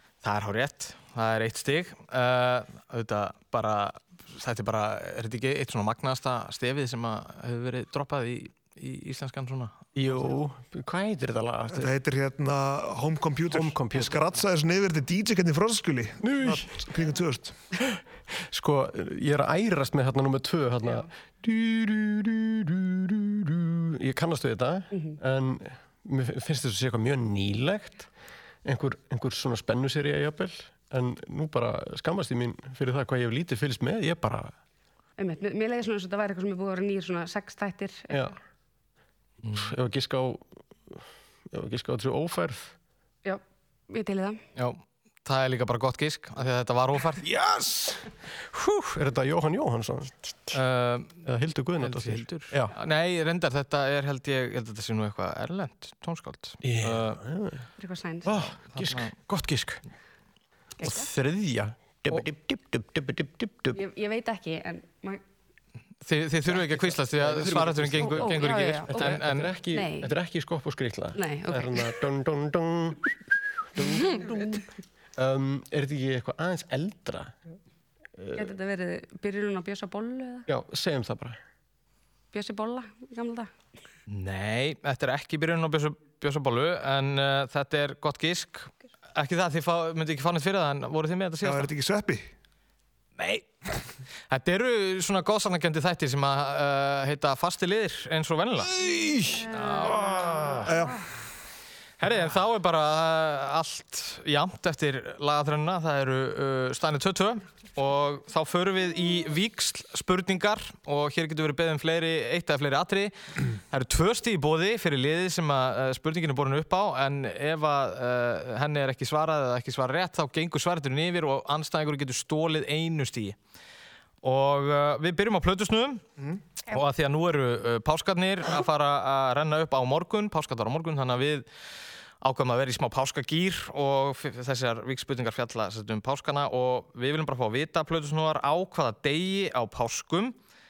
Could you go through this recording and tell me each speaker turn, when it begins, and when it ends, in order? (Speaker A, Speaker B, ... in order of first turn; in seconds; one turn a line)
Speaker A: 0.2-9.9
Speaker B: 9.9-11.9
Speaker C: 11.7-17.6
Speaker B: 13.5-14.3
Speaker B: 16.2-16.7
Speaker B: 18.5-28.1
Speaker B: 28.6-34.5
Speaker D: 35.2-38.2
Speaker B: 38.1-38.4
Speaker A: 39.4-39.7
Speaker B: 39.5-42.7
Speaker D: 43.2-44.4
Speaker A: 44.6-47.2
Speaker B: 47.3-50.6
Speaker A: 50.5-51.2
Speaker B: 51.2-52.8
Speaker A: 51.8-57.2
Speaker B: 56.6-57.7
Speaker D: 57.8-58.3
Speaker B: 58.2-59.8
Speaker A: 58.7-59.1
Speaker D: 60.8-61.1
Speaker B: 60.8-63.8
Speaker D: 63.7-65.2
Speaker A: 66.0-69.5
Speaker B: 66.6-73.1
Speaker D: 68.0-68.9
Speaker D: 69.7-70.1
Speaker D: 71.2-71.9
Speaker B: 73.8-74.6
Speaker B: 75.2-77.3
Speaker B: 78.2-78.5
Speaker D: 78.3-80.5
Speaker B: 80.5-81.4
Speaker D: 82.3-83.5
Speaker A: 84.1-91.7
Speaker C: 91.4-92.3
Speaker A: 93.2-93.7
Speaker A: 94.3-98.8
Speaker A: 99.5-100.7
Speaker B: 100.1-100.4
Speaker C: 100.7-101.0
Speaker A: 102.0-113.1
Speaker A: 113.7-123.4
Speaker A: 124.2-126.0
Speaker A: 126.7-131.5
Speaker A: 132.2-140.4